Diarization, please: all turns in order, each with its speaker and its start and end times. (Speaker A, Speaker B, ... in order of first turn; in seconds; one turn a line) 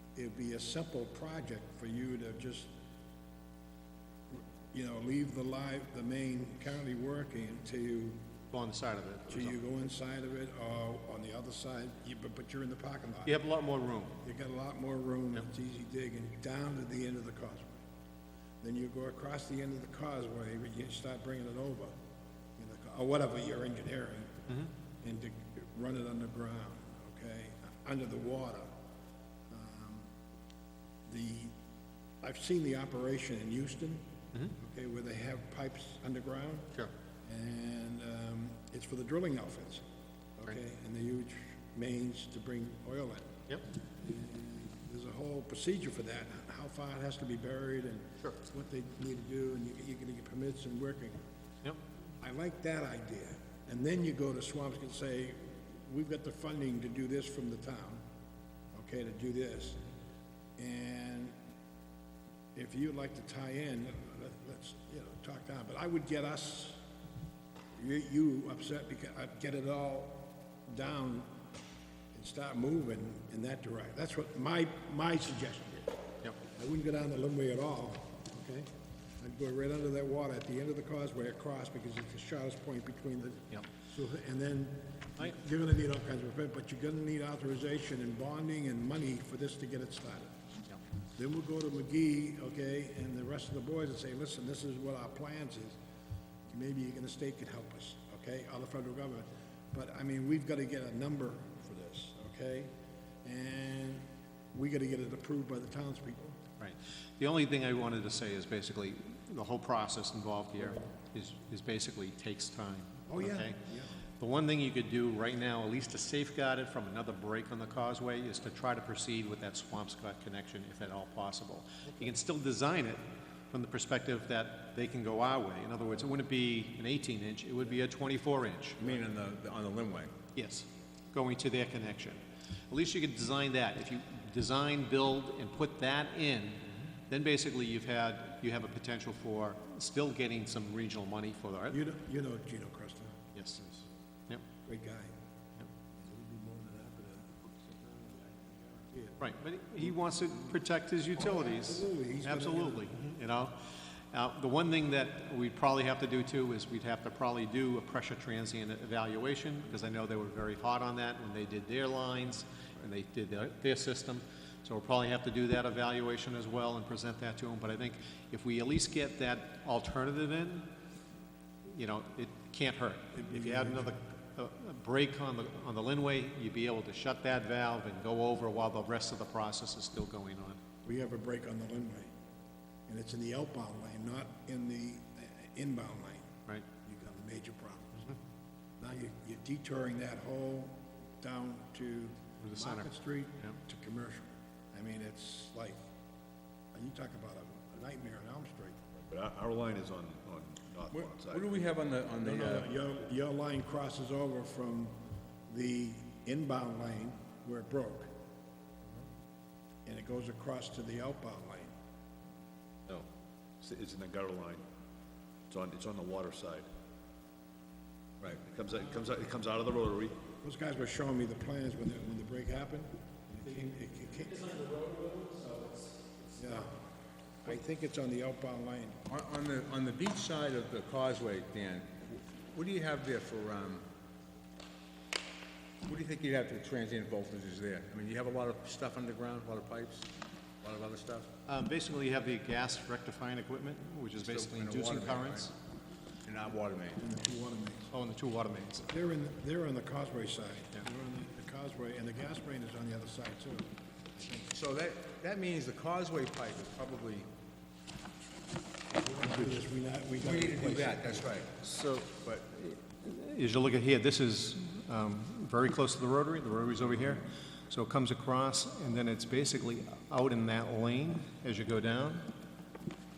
Speaker A: 0.1-2.7
Speaker A: 4.3-8.2
Speaker B: 8.5-9.6
Speaker A: 9.3-13.3
Speaker B: 13.2-14.2
Speaker A: 14.2-17.8
Speaker A: 18.6-21.9
Speaker A: 22.6-24.4
Speaker A: 25.0-28.7
Speaker A: 29.5-30.1
Speaker A: 31.1-31.6
Speaker A: 32.2-34.0
Speaker A: 34.5-36.7
Speaker A: 37.2-39.8
Speaker A: 40.4-43.3
Speaker A: 43.8-51.2
Speaker A: 52.2-58.0
Speaker A: 58.7-59.8
Speaker A: 60.6-61.3
Speaker A: 62.5-66.8
Speaker A: 67.8-71.3
Speaker A: 72.1-78.7
Speaker A: 79.2-90.6
Speaker A: 91.2-95.8
Speaker A: 96.5-102.7
Speaker A: 103.2-106.4
Speaker B: 106.6-113.6
Speaker A: 113.1-114.0
Speaker B: 114.2-123.0
Speaker B: 123.5-128.8
Speaker C: 128.8-130.1
Speaker B: 130.3-141.8
Speaker A: 141.7-143.8
Speaker A: 144.6-145.1
Speaker A: 145.9-149.2
Speaker B: 149.2-153.5
Speaker A: 151.2-152.9
Speaker B: 154.1-170.7
Speaker B: 171.7-180.6
Speaker A: 173.1-173.9
Speaker A: 180.8-182.1
Speaker A: 182.9-186.3
Speaker A: 186.8-188.2
Speaker A: 188.8-195.8
Speaker B: 192.4-192.8
Speaker A: 196.7-199.0
Speaker D: 199.1-201.7
Speaker C: 200.9-202.7
Speaker A: 202.2-204.9
Speaker A: 205.5-208.1
Speaker A: 209.8-211.7
Speaker D: 213.6-214.6
Speaker D: 215.5-216.7
Speaker D: 218.3-220.2
Speaker A: 220.4-224.5
Speaker B: 224.2-226.6
Speaker A: 226.4-226.8
Speaker A: 227.4-229.0
Speaker C: 229.1-233.8
Speaker C: 235.8-240.1
Speaker C: 240.6-241.3
Speaker B: 241.5-245.5
Speaker C: 244.2-245.5
Speaker C: 246.2-247.0
Speaker A: 246.9-247.9
Speaker B: 247.9-248.9
Speaker A: 248.8-254.4
Speaker C: 254.4-257.3
Speaker A: 258.9-261.3
Speaker C: 260.2-261.5
Speaker B: 261.6-272.3